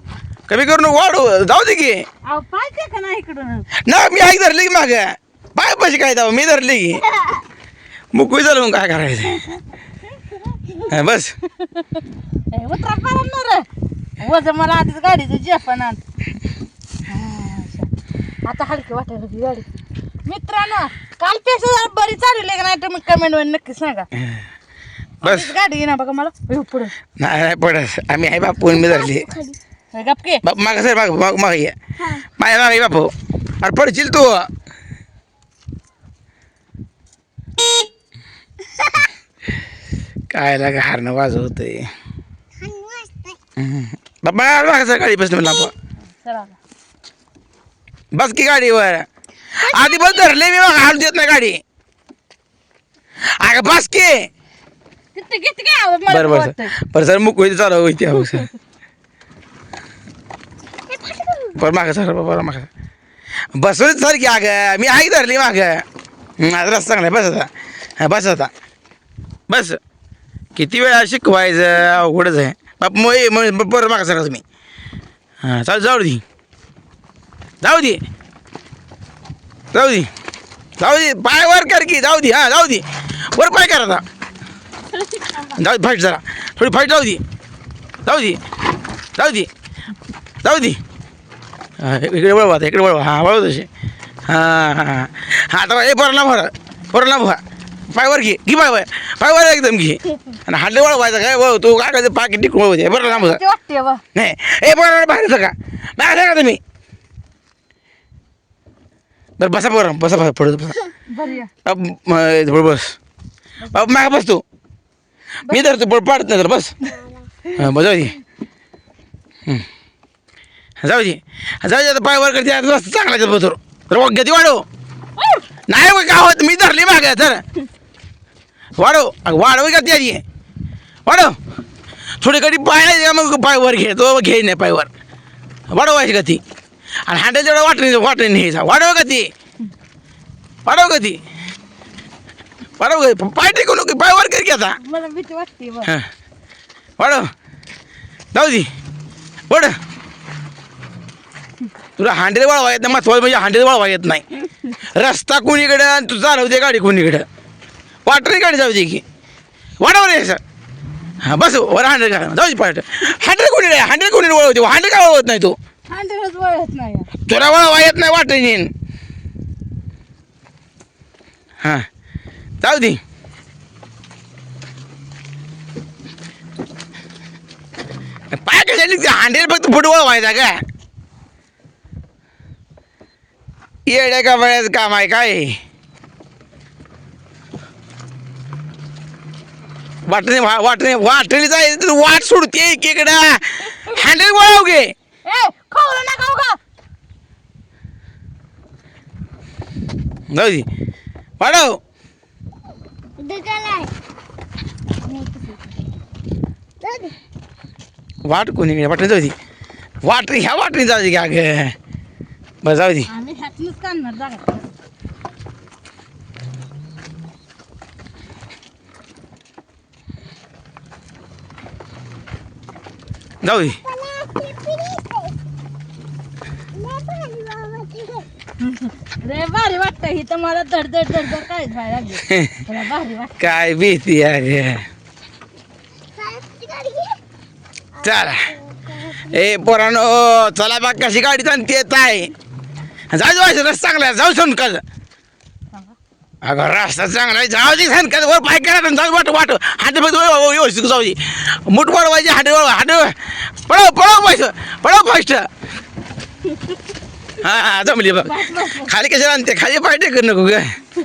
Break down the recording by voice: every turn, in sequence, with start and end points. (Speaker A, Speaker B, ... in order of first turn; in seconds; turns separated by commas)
Speaker A: 0.5-2.0, Speaker B: 2.3-3.7, Speaker A: 3.9-7.0, Speaker A: 8.1-9.5, Speaker A: 10.9-11.3, Speaker B: 12.5-13.6, Speaker B: 14.2-16.0, Speaker B: 17.1-17.9, Speaker B: 18.4-19.7, Speaker B: 20.2-24.1, Speaker A: 24.1-24.4, Speaker B: 25.2-26.9, Speaker A: 25.2-25.5, Speaker A: 27.2-29.3, Speaker C: 28.6-29.6, Speaker B: 29.9-30.4, Speaker A: 30.4-31.7, Speaker A: 32.4-34.5, Speaker A: 40.3-41.9, Speaker C: 42.6-43.4, Speaker A: 43.6-45.7, Speaker B: 46.2-46.6, Speaker A: 48.1-49.0, Speaker A: 49.6-51.6, Speaker C: 49.6-50.3, Speaker A: 53.4-54.3, Speaker B: 55.1-56.7, Speaker A: 56.1-58.5, Speaker C: 60.9-61.6, Speaker A: 61.6-62.7, Speaker A: 63.5-65.8, Speaker A: 66.4-68.5, Speaker A: 69.5-69.8, Speaker A: 70.5-74.4, Speaker A: 75.4-76.2, Speaker A: 77.6-78.0, Speaker A: 79.7-80.1, Speaker A: 80.8-84.0, Speaker B: 84.9-85.5, Speaker A: 85.5-87.2, Speaker A: 88.0-88.4, Speaker A: 89.2-89.5, Speaker A: 90.4-90.8, Speaker A: 91.8-93.7, Speaker A: 94.3-97.4, Speaker A: 97.9-103.4, Speaker B: 103.1-104.0, Speaker A: 104.1-106.6, Speaker A: 109.4-110.8, Speaker B: 111.1-111.5, Speaker A: 111.6-112.9, Speaker A: 113.7-114.4, Speaker A: 115.5-116.7, Speaker C: 116.9-117.3, Speaker A: 117.5-118.2, Speaker A: 120.8-124.6, Speaker B: 125.2-125.4, Speaker A: 125.7-127.4, Speaker A: 128.8-130.2, Speaker A: 131.1-131.3, Speaker A: 132.2-134.9, Speaker A: 135.7-136.4, Speaker A: 137.1-139.3, Speaker A: 140.7-141.2, Speaker A: 142.8-144.8, Speaker B: 144.8-145.9, Speaker A: 147.0-147.3, Speaker A: 148.3-148.7, Speaker A: 152.0-154.2, Speaker A: 154.8-157.2, Speaker A: 158.1-159.0, Speaker A: 159.8-160.4, Speaker A: 161.2-165.6, Speaker B: 165.9-167.1, Speaker A: 167.3-168.7, Speaker A: 172.6-173.0, Speaker A: 178.3-180.5, Speaker A: 183.9-185.6, Speaker A: 190.1-194.9, Speaker B: 195.3-196.6, Speaker A: 200.3-200.7, Speaker A: 201.4-201.8, Speaker C: 203.2-203.9, Speaker B: 205.0-205.7, Speaker C: 206.8-207.1, Speaker A: 208.2-209.3, Speaker A: 210.0-211.7, Speaker A: 212.6-213.1, Speaker B: 213.1-214.6, Speaker A: 223.4-223.8, Speaker C: 223.7-225.3, Speaker C: 226.7-228.3, Speaker B: 228.6-233.4, Speaker A: 232.3-232.6, Speaker A: 233.4-234.8, Speaker C: 236.1-237.2, Speaker C: 237.9-239.4, Speaker A: 238.0-238.5, Speaker A: 239.2-242.3, Speaker A: 243.1-244.8, Speaker A: 246.4-255.4, Speaker A: 257.4-260.8, Speaker B: 258.2-258.9